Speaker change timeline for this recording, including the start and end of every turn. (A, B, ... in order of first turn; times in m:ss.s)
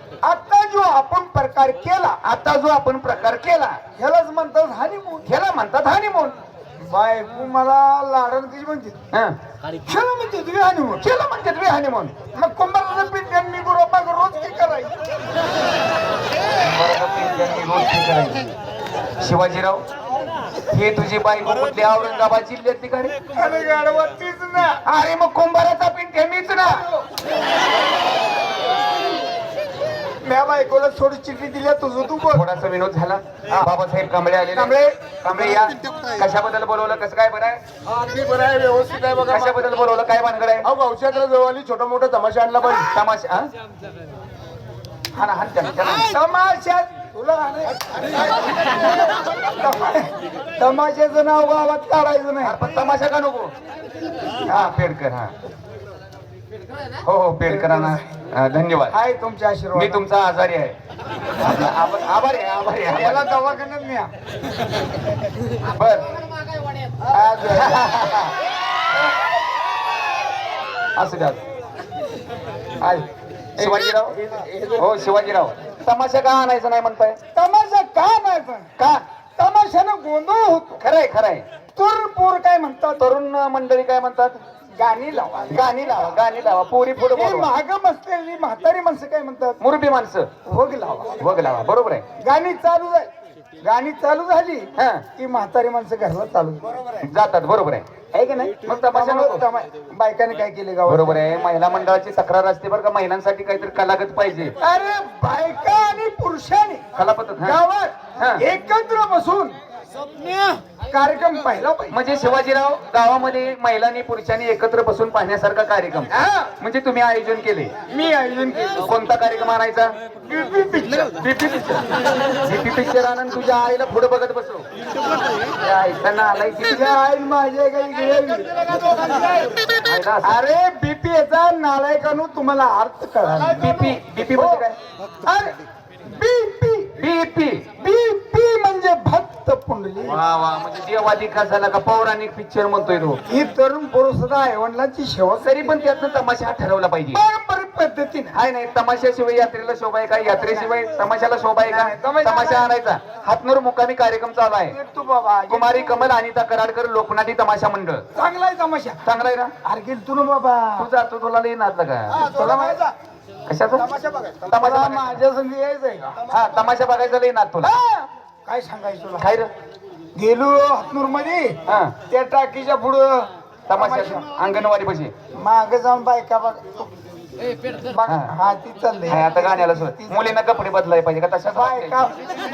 0:00.2-0:02.2 A
0:02.2-0:03.8 B
0:04.0-0:05.3 A
0:05.2-0:06.4 B
0:06.8-0:09.0 A
0:09.1-0:09.4 B
0:09.9-0:11.1 A
0:11.0-0:12.1 B
0:12.3-0:15.0 A
0:16.6-0:18.4 B
0:19.2-0:19.8 B
0:20.7-0:23.1 B
0:23.4-0:24.8 A
0:24.8-0:26.8 B
0:26.6-0:27.1 A
0:30.2-0:32.4 A
0:32.3-0:37.6 B
0:34.5-0:35.0 A
0:38.0-0:39.6 C
0:39.3-0:40.7 B
0:40.6-0:42.9 C
0:42.9-0:43.5 B
0:45.1-0:46.1 B
0:46.1-0:52.6 A
0:52.4-0:53.5 B
0:54.5-0:54.9 A
0:54.5-0:55.3 B
0:57.0-0:58.9 B
0:57.5-0:58.0 A
0:58.9-1:00.0 A
0:59.7-1:00.8 B
1:01.4-1:03.3 B
1:02.9-1:04.1 A
1:05.8-1:06.1 B
1:07.1-1:07.8 A
1:07.5-1:08.3 B
1:11.0-1:11.4 B
1:13.6-1:14.2 B
1:13.6-1:14.6 A
1:14.7-1:17.2 B
1:17.4-1:18.7 A
1:19.4-1:20.8 A
1:20.8-1:21.5 B
1:21.8-1:23.0 A
1:23.0-1:24.4 B
1:24.8-1:26.1 A
1:25.5-1:27.5 B
1:27.1-1:29.6 A
1:29.6-1:30.3 B
1:30.5-1:31.3 A
1:31.2-1:32.0 B
1:32.2-1:33.1 A
1:33.6-1:36.6 A
1:34.8-1:35.0 B
1:37.0-1:37.9 B
1:38.1-1:41.2 A
1:38.6-1:39.4 B
1:40.9-1:44.6 B
1:44.6-1:46.8 A
1:47.0-1:47.6 B
1:47.4-1:49.6 A
1:50.9-1:52.0 A
1:51.9-1:57.7 B
1:56.1-1:56.5 A
1:57.9-1:58.8 A
1:58.8-2:00.0 B
2:00.2-2:01.1 A
2:01.2-2:01.8 B
2:02.4-2:04.6 B
2:05.6-2:06.9 B
2:06.7-2:08.6 A
2:09.9-2:10.4 B
2:10.2-2:14.6 A
2:13.6-2:14.8 B
2:15.2-2:16.9 A
2:17.0-2:17.6 B
2:17.8-2:20.2 A
2:20.0-2:23.2 B
2:23.3-2:25.8 A
2:25.4-2:27.2 B
2:27.1-2:28.4 A
2:28.3-2:34.8 B
2:30.4-2:30.7 A
2:31.6-2:32.7 A
2:34.7-2:36.1 A
2:35.5-2:38.0 B
2:38.2-2:40.9 A
2:39.0-2:39.5 B
2:40.8-2:42.4 B
2:42.1-2:42.9 A
2:43.5-2:43.8 B
2:43.8-2:46.2 A
2:44.5-2:45.2 B
2:46.3-2:47.8 B
2:47.6-2:49.3 A
2:49.2-2:49.5 B
2:50.2-2:54.2 A
2:51.7-2:51.9 B
2:53.7-2:55.1 B
2:55.3-2:56.9 A
2:57.9-3:00.2 A
2:58.0-2:58.3 B
2:59.1-3:02.0 B
3:01.5-3:02.1 A